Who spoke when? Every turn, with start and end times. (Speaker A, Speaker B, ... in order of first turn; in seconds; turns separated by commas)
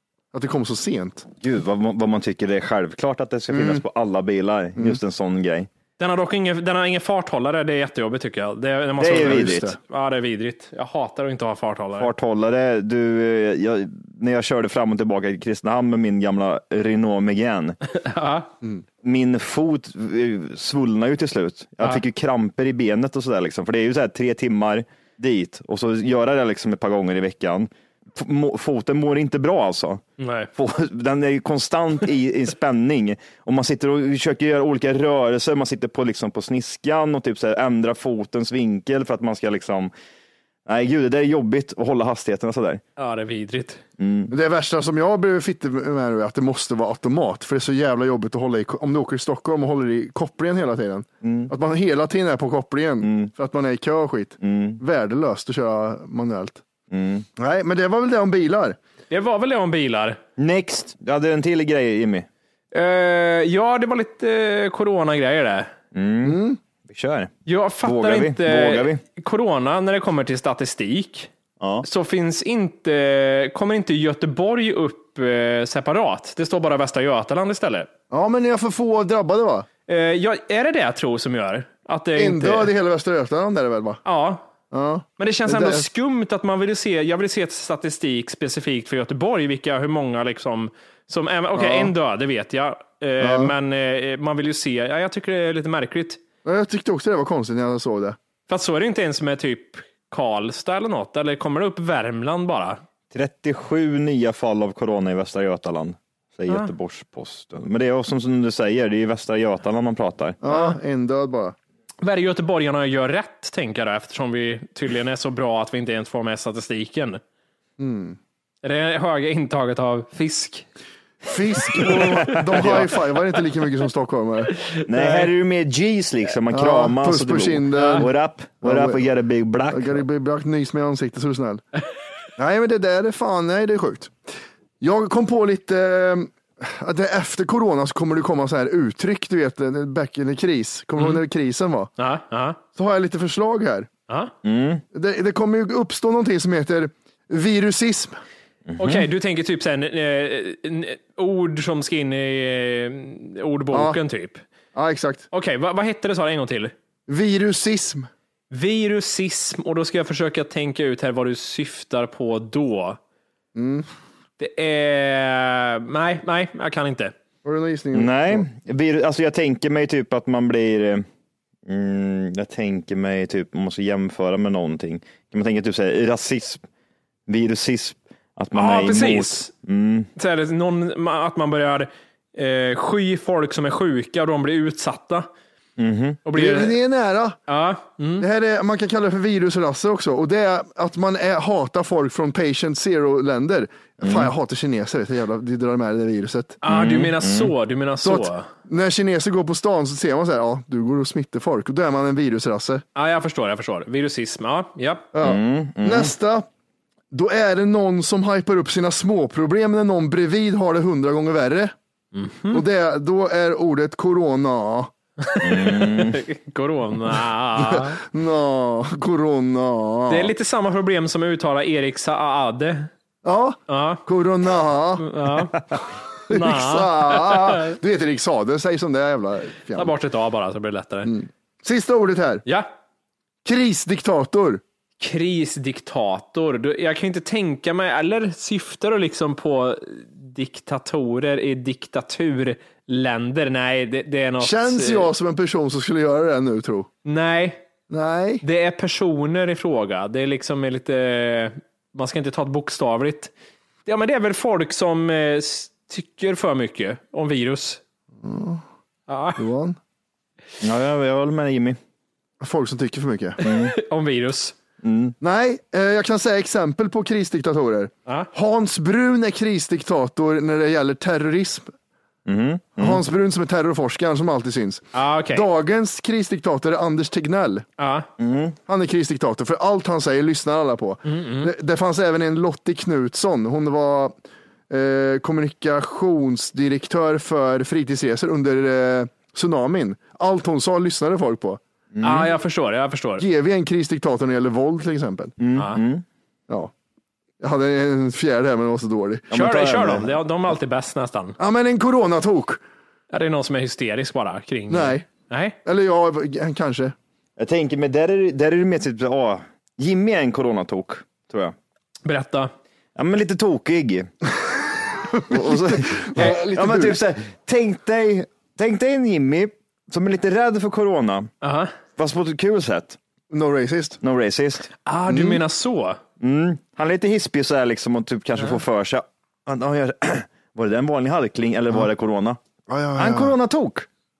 Speaker A: 0.3-1.3, Speaker B: 1.4-5.7, Speaker A: 3.5-3.8, Speaker A: 4.8-5.0, Speaker C: 6.0-12.1, Speaker B: 9.0-9.7, Speaker A: 9.1-9.8, Speaker B: 12.0-17.8, Speaker C: 17.9-18.5, Speaker B: 19.0-30.0, Speaker C: 30.2-30.5, Speaker B: 30.6-39.9, Speaker B: 40.7-42.8, Speaker C: 43.0-43.8, Speaker B: 44.0-44.3, Speaker A: 44.3-56.6, Speaker B: 51.2-51.5, Speaker B: 53.0-53.3, Speaker B: 54.4-54.8, Speaker B: 56.9-57.3, Speaker A: 57.4-58.8, Speaker C: 59.1-60.2, Speaker B: 60.4-62.3, Speaker C: 62.7-65.7, Speaker B: 65.9-67.3, Speaker A: 66.2-66.6, Speaker C: 67.5-71.3, Speaker B: 67.8-69.0, Speaker B: 71.6-71.8, Speaker C: 71.8-77.9, Speaker A: 78.1-79.7, Speaker C: 79.9-82.7, Speaker A: 82.2-84.0, Speaker C: 84.0-84.5, Speaker A: 84.7-85.9, Speaker C: 85.2-96.2, Speaker A: 91.5-91.9, Speaker A: 93.2-93.5, Speaker A: 96.5-98.2, Speaker C: 98.5-102.8, Speaker B: 103.1-110.4, Speaker A: 110.4-111.6, Speaker C: 110.5-110.8, Speaker C: 112.0-117.2, Speaker A: 117.8-118.2, Speaker C: 118.6-120.7, Speaker A: 121.2-124.5, Speaker C: 121.7-122.9, Speaker B: 121.8-122.9, Speaker C: 124.7-125.3, Speaker B: 124.9-130.0, Speaker A: 126.5-128.1, Speaker C: 127.8-128.1, Speaker A: 128.6-129.1, Speaker A: 129.7-131.6, Speaker A: 132.4-134.1, Speaker A: 134.8-141.9, Speaker C: 142.0-142.6, Speaker A: 142.8-143.9, Speaker B: 144.4-144.8, Speaker A: 144.9-148.2, Speaker B: 148.7-149.1, Speaker C: 148.8-154.4, Speaker A: 153.7-154.0, Speaker A: 154.8-155.2, Speaker C: 155.3-156.7, Speaker A: 157.1-158.1, Speaker C: 158.5-163.0, Speaker A: 163.6-163.9, Speaker C: 164.4-167.1, Speaker A: 167.4-168.5, Speaker B: 167.9-171.1, Speaker B: 171.7-176.6, Speaker B: 177.3-180.1, Speaker C: 178.5-179.5, Speaker C: 180.2-185.3, Speaker B: 185.8-186.2, Speaker C: 186.2-186.8, Speaker A: 186.3-187.4, Speaker C: 187.5-188.3, Speaker A: 188.2-196.6, Speaker B: 194.0-194.3, Speaker C: 196.6-198.5, Speaker B: 196.7-197.5, Speaker A: 198.0-202.8, Speaker C: 203.0-205.1, Speaker A: 205.1-206.5, Speaker B: 205.2-206.1, Speaker A: 207.1-211.7, Speaker C: 212.1-212.6, Speaker A: 212.5-214.9, Speaker C: 215.2-218.0, Speaker B: 215.4-216.2, Speaker A: 217.6-220.3, Speaker C: 220.1-222.9, Speaker A: 223.2-225.1, Speaker C: 223.7-224.0, Speaker C: 225.0-225.6, Speaker C: 226.3-227.8, Speaker A: 226.3-229.9, Speaker C: 229.8-231.1, Speaker A: 231.1-232.4, Speaker A: 233.4-234.6, Speaker C: 235.0-245.1, Speaker A: 244.4-246.9, Speaker C: 247.1-247.6, Speaker A: 247.9-248.4, Speaker C: 248.4-253.3, Speaker C: 253.9-257.8, Speaker A: 258.2-258.6, Speaker C: 259.1-259.4, Speaker A: 259.4-259.8, Speaker B: 260.6-261.8, Speaker A: 262.4-263.4, Speaker C: 263.4-264.6, Speaker B: 263.4-263.7, Speaker B: 264.8-265.1, Speaker A: 265.2-271.7, Speaker B: 272.3-273.0, Speaker A: 272.8-277.6, Speaker C: 274.9-275.5, Speaker C: 277.8-278.1, Speaker B: 278.2-278.6, Speaker A: 278.7-284.1, Speaker C: 281.1-281.5, Speaker A: 284.7-291.6, Speaker B: 291.9-292.3, Speaker C: 292.0-293.2, Speaker A: 293.2-295.4, Speaker B: 295.4-296.0, Speaker C: 295.6-295.8, Speaker A: 297.4-299.3, Speaker B: 299.3-300.1, Speaker C: 299.3-301.4, Speaker A: 301.4-302.6, Speaker C: 303.1-305.6, Speaker A: 304.7-305.1, Speaker A: 305.6-306.9, Speaker B: 307.4-311.6, Speaker C: 312.1-312.5, Speaker B: 313.0-314.1, Speaker A: 315.1-317.0, Speaker B: 315.3-321.3, Speaker C: 321.4-321.7, Speaker B: 322.0-323.0, Speaker A: 323.3-324.0, Speaker B: 324.0-324.7, Speaker C: 324.9-326.0, Speaker A: 325.1-325.4, Speaker B: 326.2-332.4, Speaker A: 332.7-333.4, Speaker B: 333.0-333.9